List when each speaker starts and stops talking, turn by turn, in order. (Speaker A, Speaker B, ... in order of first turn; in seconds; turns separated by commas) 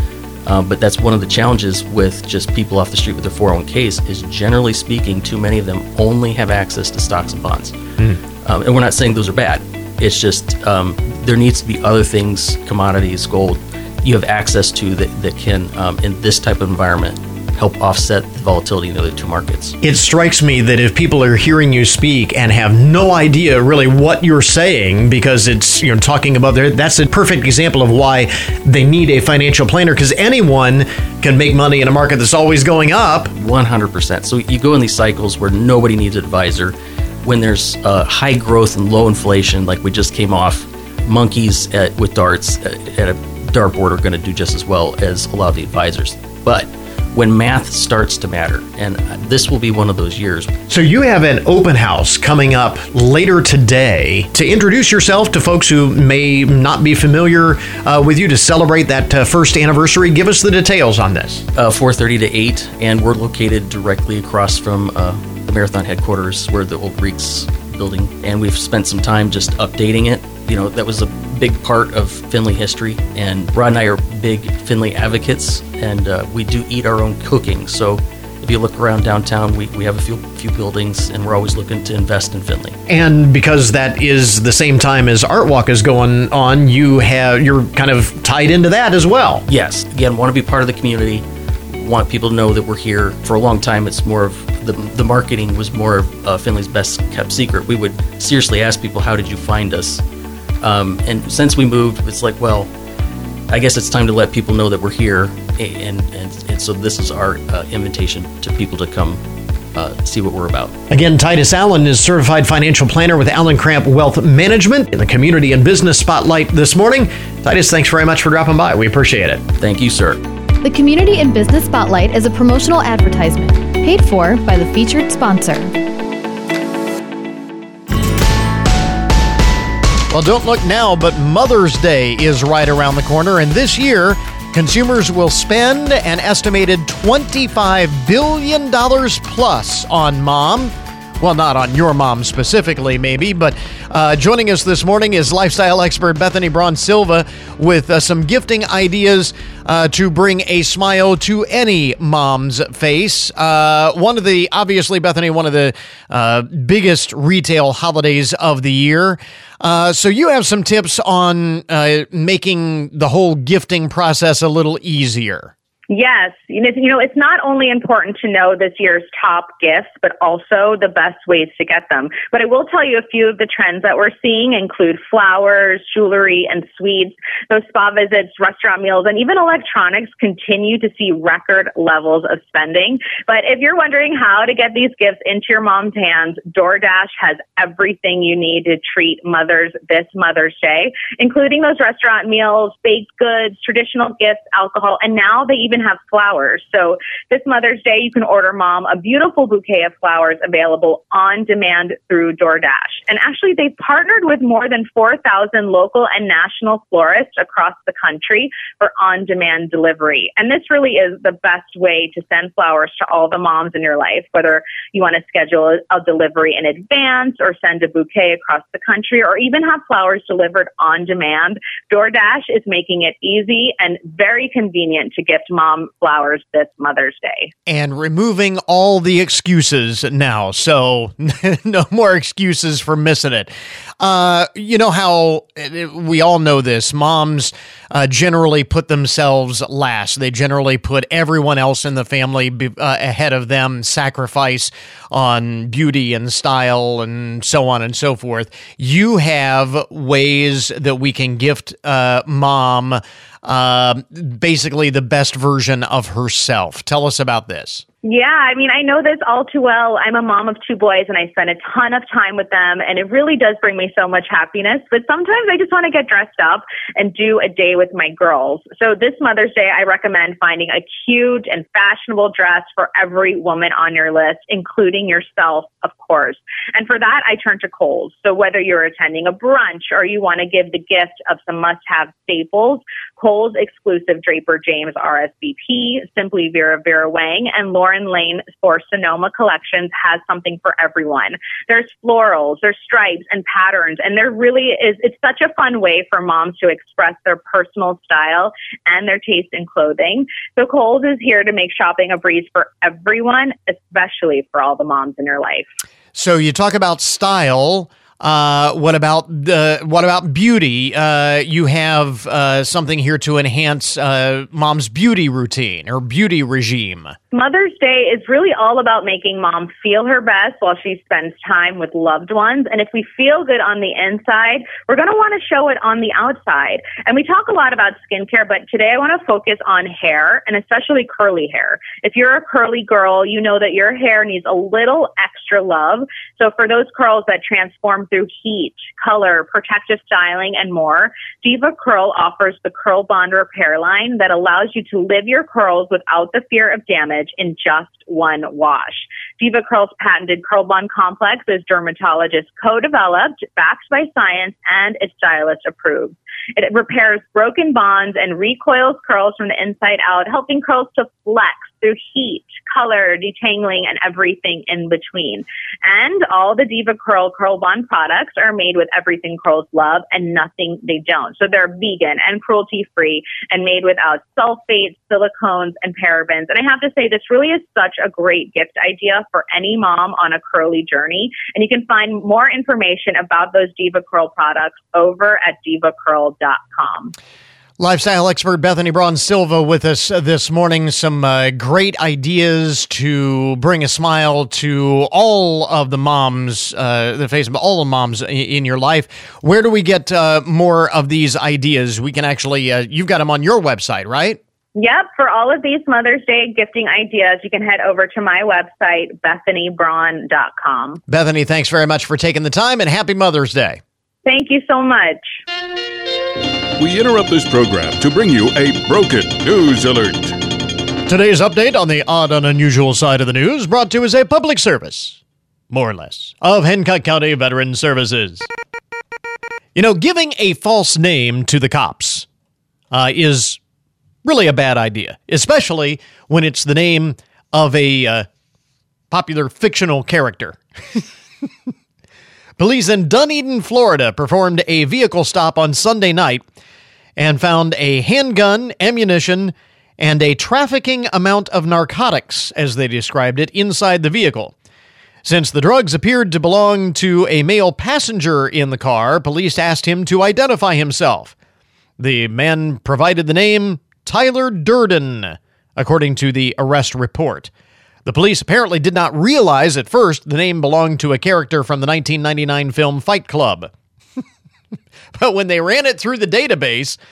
Speaker A: 0.5-7.8, Speaker A: 8.4-19.8, Speaker B: 19.8-33.3, Speaker A: 33.4-50.5, Speaker B: 50.7-61.5, Speaker A: 61.6-82.8, Speaker B: 82.9-89.5, Speaker A: 89.5-100.0, Speaker A: 100.6-102.7, Speaker A: 103.5-109.2, Speaker A: 109.7-110.8, Speaker B: 110.9-119.5, Speaker A: 119.6-120.2, Speaker C: 120.6-125.8, Speaker B: 130.1-165.5, Speaker D: 165.9-227.5, Speaker B: 227.7-257.8, Speaker D: 258.0-305.7, Speaker B: 306.1-317.1, Speaker D: 317.3-387.1, Speaker B: 387.8-404.4, Speaker D: 404.8-411.0, Speaker B: 411.1-413.8, Speaker D: 414.2-415.4, Speaker E: 416.8-420.4, Speaker B: 421.1-425.2, Speaker B: 425.7-428.5, Speaker B: 429.8-432.3, Speaker B: 432.9-433.6, Speaker B: 434.2-438.3, Speaker B: 439.1-441.0, Speaker B: 442.6-446.4, Speaker B: 447.2-454.5, Speaker B: 455.2-461.4, Speaker B: 462.0-467.5, Speaker B: 468.1-473.7, Speaker B: 475.1-477.0